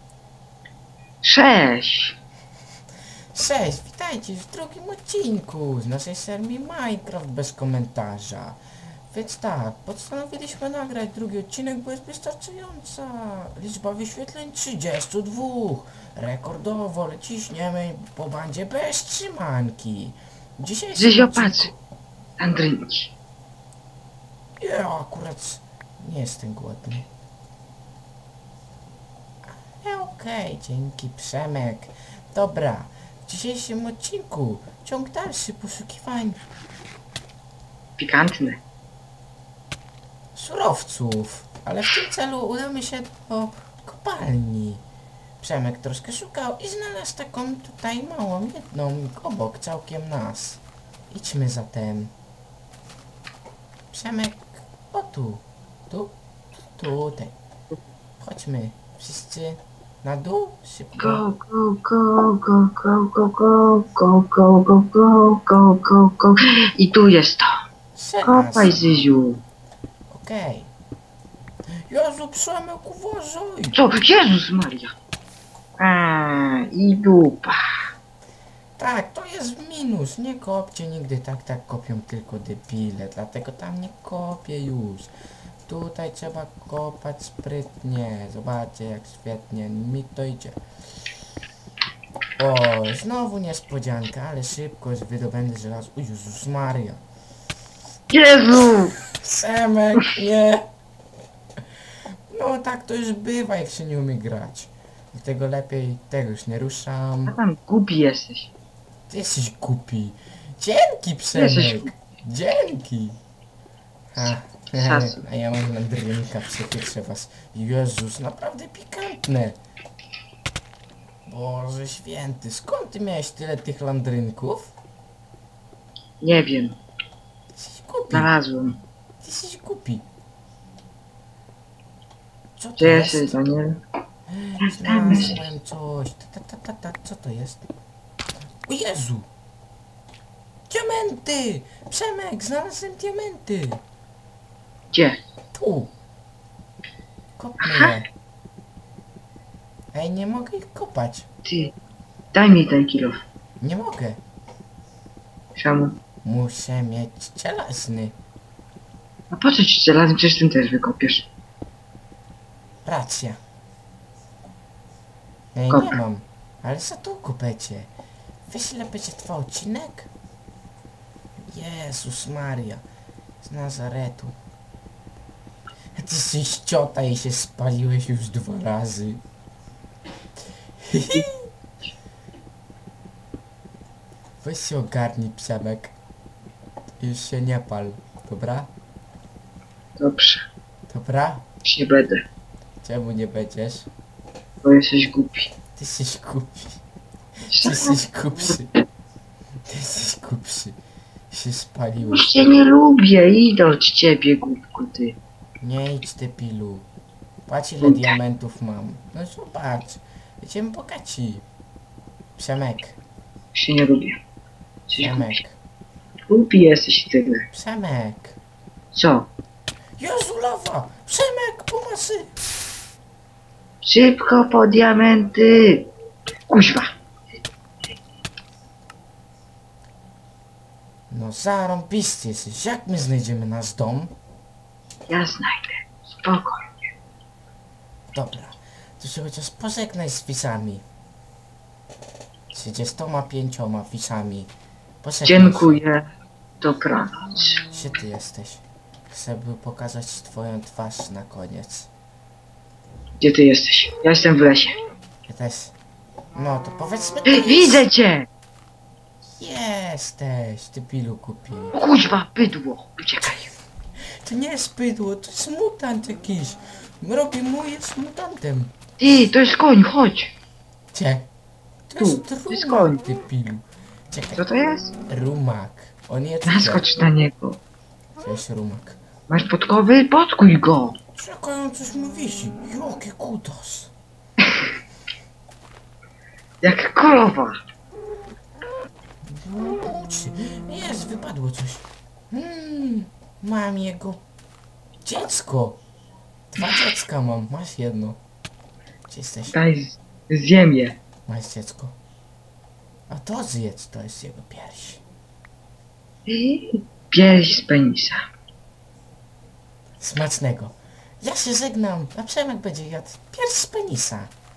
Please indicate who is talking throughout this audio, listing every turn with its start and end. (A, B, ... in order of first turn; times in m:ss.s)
0:01.2-0:02.2 A
0:03.3-0:08.6 B
0:09.1-0:21.7 B
0:20.9-0:21.7 A
0:22.4-0:23.1 A
0:24.6-0:27.1 B
0:29.5-0:36.4 B
0:38.0-0:38.6 A
0:40.3-0:44.8 B
0:45.4-0:52.1 B
0:53.9-0:56.2 B
0:56.7-0:57.4 B
0:58.2-1:01.2 B
1:01.0-1:07.6 A
1:07.9-1:09.0 B
1:08.2-1:09.4 A
1:10.1-1:10.7 B
1:11.9-1:13.8 B
1:13.7-1:14.9 A
1:15.8-1:17.9 A
1:18.8-1:25.1 B
1:25.7-1:30.6 B
1:32.4-1:37.0 B
1:38.1-1:39.0 A
1:39.0-1:40.6 B
1:42.3-1:47.4 B
1:47.3-1:48.5 A
1:49.1-1:53.2 B
1:51.3-1:51.9 A
1:54.1-1:59.6 B
1:54.8-1:55.2 A
2:01.2-2:04.7 B
2:06.2-2:06.8 A
2:07.5-2:08.3 B
2:08.1-2:08.8 A
2:09.2-2:10.0 B
2:12.6-2:13.4 B
2:12.8-2:13.8 A
2:14.3-2:17.6 B
2:14.6-2:15.4 A
2:18.6-2:19.3 B
2:20.7-2:23.8 B
2:25.5-2:25.9 B
2:27.4-2:28.1 B
2:27.6-2:27.9 A
2:29.9-2:31.3 B
2:31.4-2:31.7 A
2:32.3-2:33.2 A
2:33.6-2:34.2 B
2:35.6-2:35.9 A
2:36.2-2:38.2 B
2:39.3-2:41.3 A
2:42.8-2:43.4 B
2:45.5-2:47.9 B
2:45.7-2:46.0 A
2:48.5-2:50.1 B
2:51.4-2:52.8 B
2:53.4-2:54.4 B
2:56.0-2:59.2 B
3:00.8-3:01.5 B
3:04.4-3:05.9 B
3:07.0-3:08.7 B
3:10.0-3:10.5 A
3:10.9-3:11.4 B
3:11.6-3:12.2 A
3:12.8-3:13.9 B
3:14.6-3:15.5 A
3:15.7-3:16.8 B
3:17.5-3:18.0 A
3:17.5-3:18.7 B
3:19.6-3:20.8 B
3:21.3-3:22.5 B
3:22.0-3:25.2 A
3:25.6-3:26.9 B
3:27.5-3:31.4 B
3:27.8-3:28.2 A
3:32.4-3:33.0 B
3:33.5-3:34.2 A
3:34.9-3:35.4 A
3:35.0-3:35.6 B
3:36.3-3:37.4 A
3:37.5-3:38.4 B
3:38.9-3:39.3 A
3:40.0-3:42.3 B
3:43.8-3:45.9 A
3:46.5-3:46.9 A
3:51.1-3:54.1 B
3:55.1-3:56.7 A
3:58.1-4:00.8 B
4:02.5-4:04.5 B
4:05.0-4:05.8 B
4:05.2-4:06.1 A
4:06.6-4:07.6 A
4:07.7-4:11.9 B
4:13.2-4:14.8 A
4:15.3-4:15.7 B
4:16.3-4:17.8 B
4:17.2-4:18.3 A
4:19.4-4:21.8 B
4:21.7-4:23.4 A
4:24.2-4:28.8 B
4:29.0-4:30.3 A
4:30.9-4:31.3 B
4:31.9-4:34.4 B
4:32.0-4:33.0 A
4:34.4-4:34.9 A
4:35.1-4:36.8 B
4:36.4-4:37.6 A
4:38.2-4:39.0 B
4:39.3-4:41.0 A
4:41.1-4:43.9 B
4:46.6-4:47.6 A
4:49.2-4:54.2 B
4:55.0-4:55.8 B
4:56.5-4:58.2 B
4:59.1-4:59.6 B
4:59.5-5:01.0 A
5:01.2-5:01.9 B
5:03.1-5:05.0 B
5:06.3-5:08.2 A
5:10.0-5:14.3 B